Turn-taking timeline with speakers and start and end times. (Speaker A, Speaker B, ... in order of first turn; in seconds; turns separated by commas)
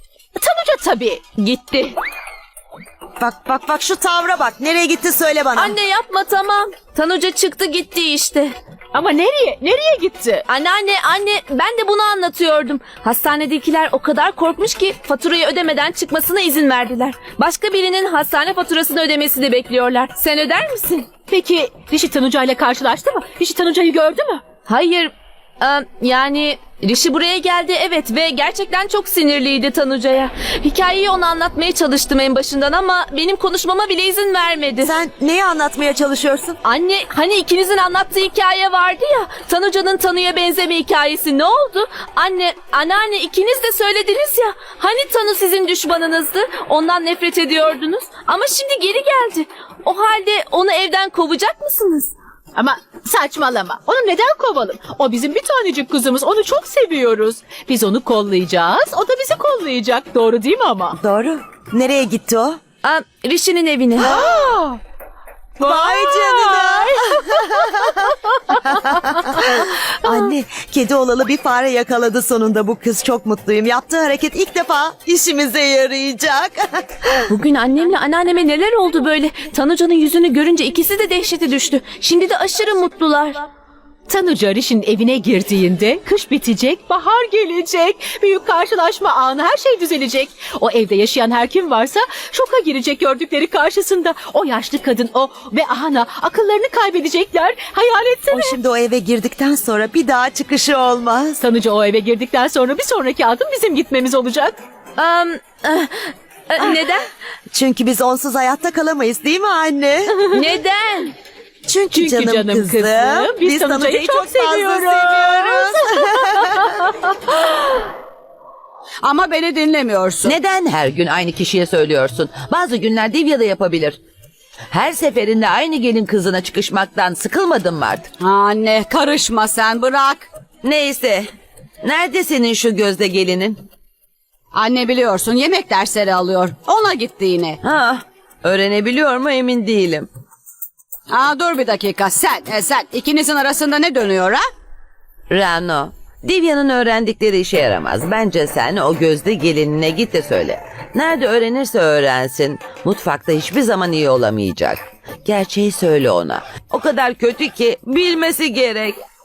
Speaker A: 0.3-1.2, Speaker B: 1.4-1.9, Speaker C: 3.2-5.8, Speaker B: 5.5-8.5, Speaker A: 8.9-10.4, Speaker B: 10.5-21.1, Speaker A: 21.3-24.4, Speaker B: 24.6-34.9, Speaker C: 34.8-36.6, Speaker B: 36.6-52.1, Speaker A: 52.5-61.0, Speaker C: 61.0-62.6, Speaker B: 62.8-64.1, Speaker A: 64.1-64.8, Speaker C: 65.6-77.1, Speaker A: 65.6-67.0, Speaker B: 77.3-83.4, Speaker A: 84.1-98.6, Speaker C: 98.3-101.4, Speaker A: 101.4-104.6, Speaker B: 105.0-107.0, Speaker C: 107.5-110.2, Speaker B: 110.3-111.2, Speaker C: 111.7-116.7, Speaker A: 111.9-116.9, Speaker D: 119.0-120.3, Speaker E: 120.2-124.0, Speaker E: 124.7-128.1, Speaker D: 128.2-130.3, Speaker E: 130.6-133.6, Speaker D: 134.5-137.6, Speaker E: 137.6-140.1, Speaker D: 141.1-144.4, Speaker E: 145.3-159.0